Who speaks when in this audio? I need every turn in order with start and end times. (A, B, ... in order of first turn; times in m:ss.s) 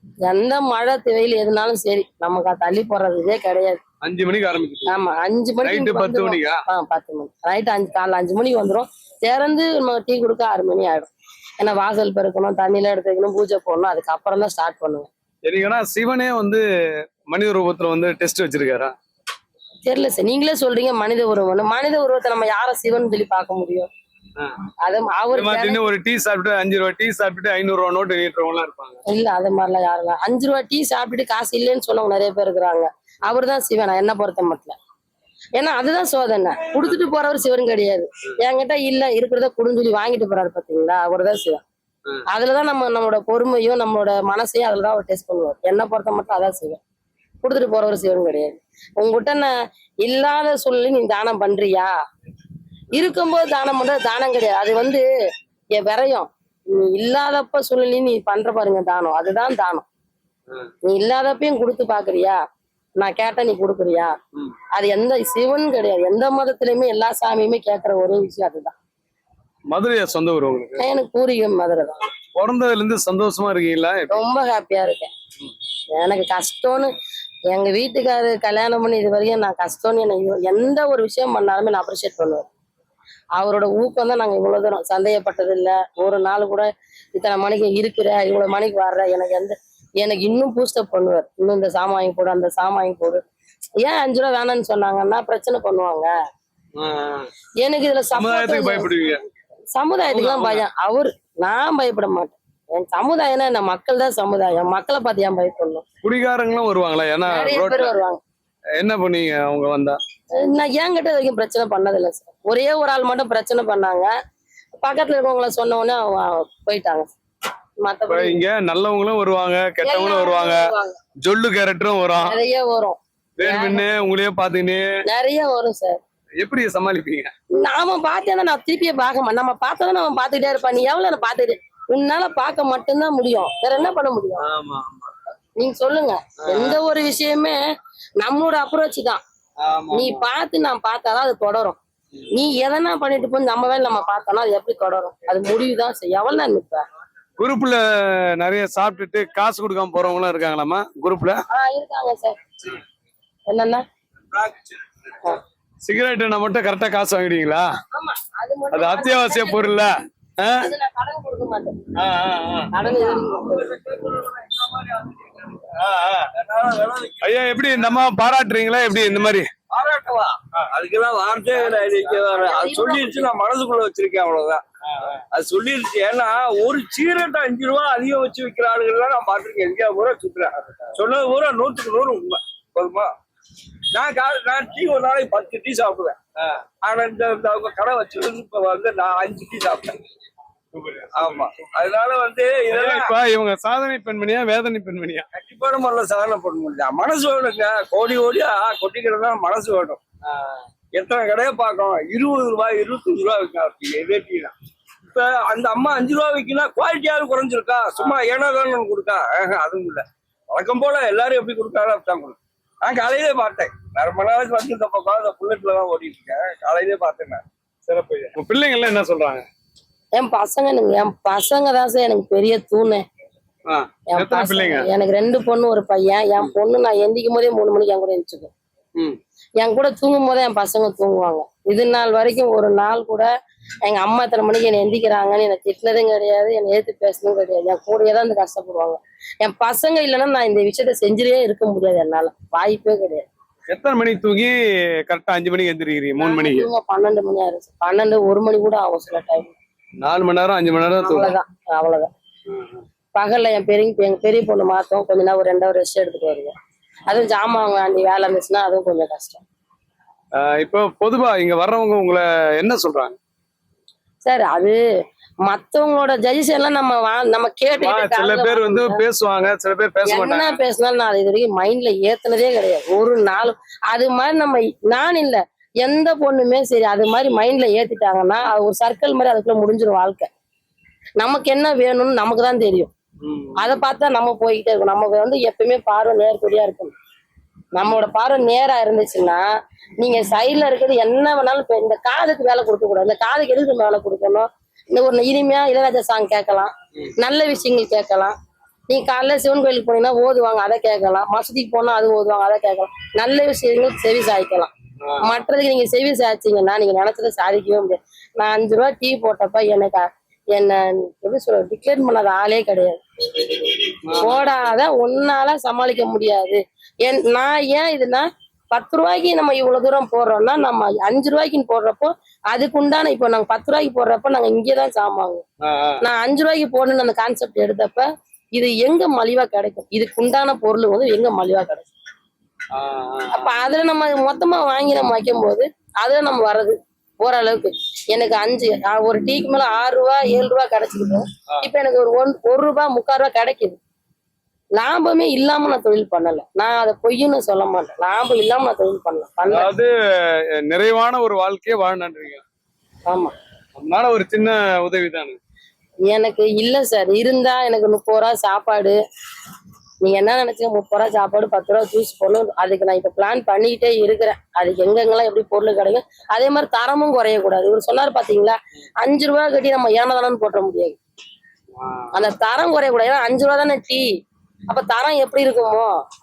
0:00.2-0:03.8 A
0:04.0-0:05.0 B
0:04.9-0:15.1 A
0:05.6-0:06.6 B
0:15.4-0:16.6 B
0:17.3-0:18.9 B
0:19.8-0:23.9 A
0:24.8-0:25.9 A
0:25.3-0:29.0 B
0:29.1-0:34.8 A
0:35.6-0:41.6 A
0:42.3-0:46.8 A
0:47.4-0:51.9 A
0:52.9-0:55.0 A
0:55.8-0:59.8 A
1:00.8-1:02.4 A
1:03.0-1:04.1 A
1:04.7-1:08.7 A
1:09.7-1:10.8 B
1:10.8-1:12.0 A
1:12.4-1:14.2 B
1:14.1-1:15.1 A
1:15.9-1:16.9 A
1:17.5-1:22.5 A
1:23.4-1:33.2 A
1:33.8-1:36.1 A
1:36.8-1:37.3 B
1:37.6-1:38.9 A
1:38.1-1:39.2 B
1:39.7-1:45.8 A
1:40.1-1:40.6 B
1:46.0-1:47.9 B
1:47.3-1:48.2 A
1:48.8-1:50.0 B
1:50.3-1:54.1 A
1:54.8-1:57.1 A
1:57.8-1:58.4 A
1:58.1-2:00.6 B
1:59.8-2:01.0 A
2:01.2-2:02.4 B
2:02.2-2:03.9 A
2:03.4-2:04.9 B
2:05.1-2:06.0 A
2:06.4-2:07.3 B
2:07.6-2:14.4 A
2:14.4-2:15.1 B
2:15.6-2:17.6 A
2:16.4-2:16.8 B
2:18.2-2:19.2 A
2:19.6-2:20.2 B
2:19.9-2:21.8 A
2:22.3-2:26.8 A
2:27.4-2:31.4 B
2:31.5-2:32.4 A
2:33.5-2:33.8 A
2:35.8-2:37.7 B
2:37.9-2:39.8 A
2:38.7-2:40.6 B
2:40.6-2:41.8 A
2:42.0-2:42.7 B
2:42.7-2:43.7 A
2:43.2-2:45.7 C
2:45.7-2:46.3 B
2:46.3-2:47.4 C
2:47.2-2:49.5 B
2:49.7-2:54.6 C
2:51.9-2:53.3 A
2:55.3-3:03.1 C
3:03.9-3:06.2 C
3:06.8-3:10.0 C
3:10.7-3:11.5 B
3:11.1-3:13.1 C
3:12.7-3:15.3 B
3:15.3-3:20.0 C
3:20.9-3:24.5 C
3:25.1-3:37.4 C
3:37.8-3:39.4 B
3:40.1-3:43.0 A
3:43.7-3:44.9 B
3:44.1-3:48.5 A
3:49.6-3:53.3 A
3:53.8-4:03.2 A
4:03.7-4:04.6 B
4:05.1-4:06.7 B
4:06.2-4:09.5 A
4:10.0-4:11.3 B
4:11.0-4:12.1 A
4:12.5-4:12.8 B
4:13.1-4:16.5 A
4:17.1-4:19.4 A
4:20.4-4:23.2 B
4:24.2-4:24.8 A
4:25.4-4:29.0 A
4:27.8-4:30.6 B
4:30.0-4:40.3 A
4:41.2-4:42.9 A
4:43.2-4:43.8 B
4:43.6-4:46.9 A
4:47.7-4:49.4 A
4:50.0-4:58.3 A
4:58.9-5:25.4 A
5:14.0-5:14.5 B
5:25.6-5:26.0 B
5:26.0-5:31.9 A
5:32.7-5:33.5 B
5:33.3-5:43.8 A
5:44.8-5:49.7 A
5:49.5-5:52.4 B
5:53.1-5:53.3 A
5:53.7-5:55.4 B
5:56.1-5:59.0 A
6:00.0-6:11.0 A
6:11.8-6:12.1 B
6:12.1-6:14.0 A
6:14.7-6:15.9 A